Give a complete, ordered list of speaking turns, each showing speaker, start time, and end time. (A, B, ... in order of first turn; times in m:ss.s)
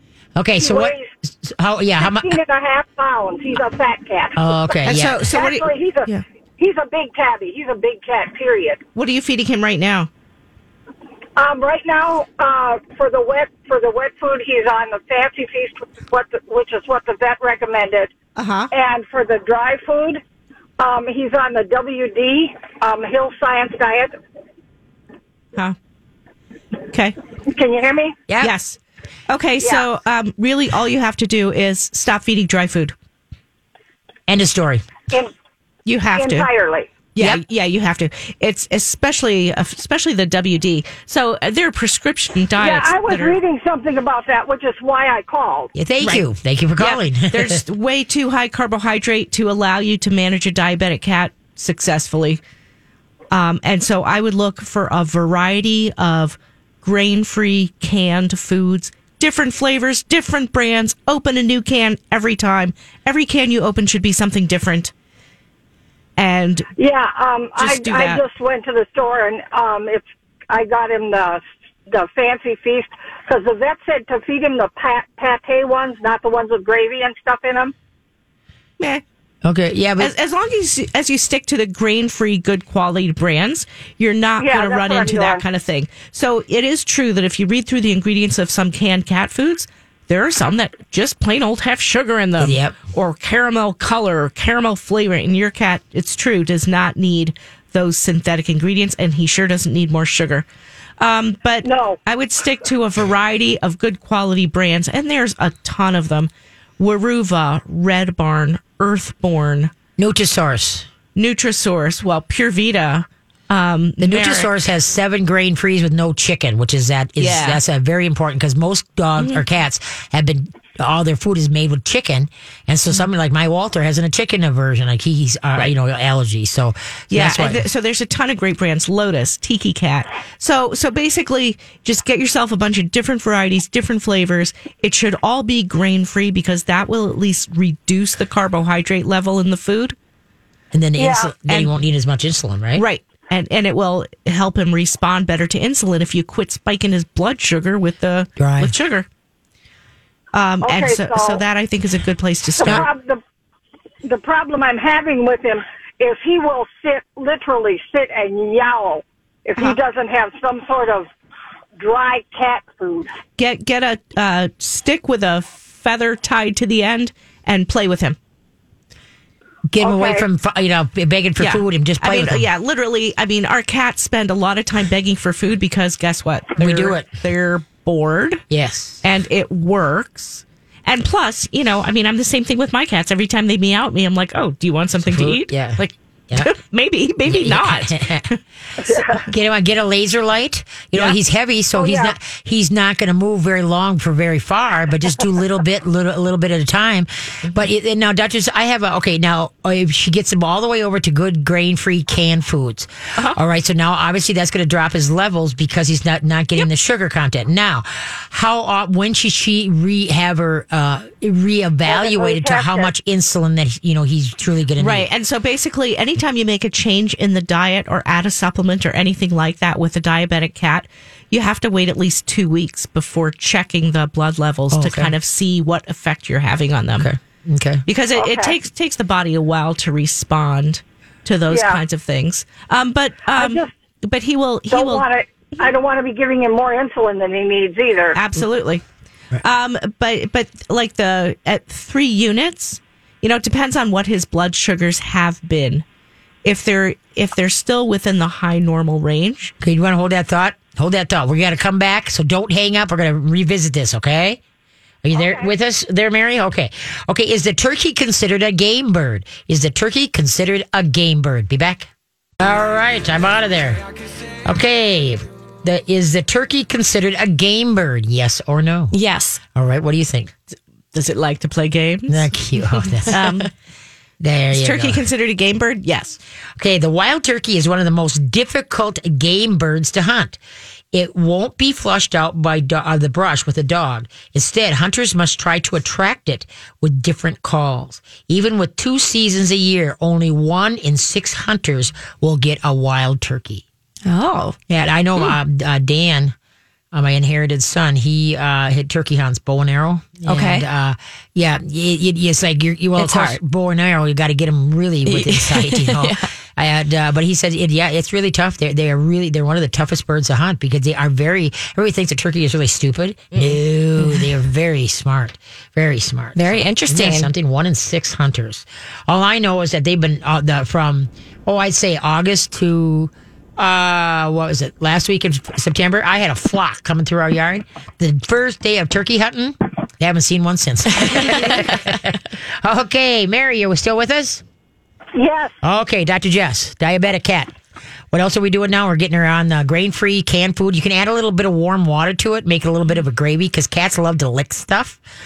0:00.4-0:02.4 A
0:00.6-0:01.1 B
0:02.0-0:08.8 B
0:04.4-0:05.3 A
0:04.8-0:06.2 C
0:09.0-0:10.1 C
0:11.4-0:18.1 B
0:18.4-0:18.7 C
0:18.7-0:20.2 B
0:20.8-0:24.2 B
0:26.9-0:27.2 C
0:27.5-0:28.2 B
0:28.3-0:28.6 A
0:28.4-0:33.0 C
0:29.6-0:29.9 B
0:34.3-0:35.0 A
0:35.9-0:36.5 C
0:36.1-0:36.9 B
0:37.2-0:43.4 C
0:42.6-0:45.7 B
0:45.8-0:47.6 A
0:46.0-0:46.3 C
0:46.8-0:52.4 C
0:53.3-1:04.9 C
1:06.2-1:06.7 C
1:06.8-1:17.7 B
1:07.6-1:08.2 C
1:19.4-1:20.1 A
1:20.0-1:40.5 C
1:24.4-1:25.4 B
1:32.4-1:32.8 A
1:41.0-1:49.7 C
1:41.6-1:42.0 B
1:50.0-1:50.9 A
1:51.2-1:54.5 C
1:54.0-2:07.6 A
1:57.2-1:57.6 C
1:59.2-1:59.4 C
2:07.1-2:20.0 C
2:20.7-2:22.8 A
2:21.0-2:21.4 B
2:21.5-2:21.7 C
2:22.8-2:29.1 C
2:28.4-2:28.7 A
2:30.3-2:32.9 C
2:30.6-2:31.4 B
2:32.6-2:33.2 B
2:34.0-2:41.1 B
2:41.8-2:43.1 B
2:43.4-2:48.2 C
2:49.7-2:52.5 A
2:49.8-2:50.2 B
2:51.4-2:58.4 C
2:56.6-2:57.1 A
2:58.5-2:59.0 A
2:59.0-3:08.4 C
3:05.0-3:06.5 A
3:07.3-3:08.3 A
3:08.8-3:09.2 B
3:08.9-3:35.1 A
3:11.7-3:12.2 B
3:31.9-3:32.9 B
3:34.8-3:47.1 C
3:44.7-3:45.1 A
3:47.0-3:47.8 A
3:47.9-3:55.1 C
3:48.2-3:48.6 B
3:51.5-3:51.8 B
3:53.4-3:53.7 B
3:54.7-3:58.2 B
3:58.2-3:58.8 C
3:59.4-4:05.8 C
4:06.4-4:09.5 C
4:09.6-4:14.4 A
4:15.0-4:23.8 A
4:15.1-4:15.5 B
4:24.4-4:29.0 A
4:28.9-4:29.4 D
4:29.6-4:30.3 A
4:30.9-4:32.3 C
4:32.1-4:33.2 A
4:33.1-4:33.5 C
4:34.2-4:35.0 A
4:34.5-4:36.2 C
4:36.6-4:40.4 A
4:40.9-4:53.6 A
4:54.1-4:54.6 D
4:54.7-4:56.4 A
4:56.9-5:34.4 A
5:00.3-5:00.6 D
5:03.0-5:03.4 D
5:05.1-5:06.3 D
5:16.4-5:17.3 D
5:35.2-5:35.6 B
5:35.6-5:37.5 A
5:38.1-5:45.0 A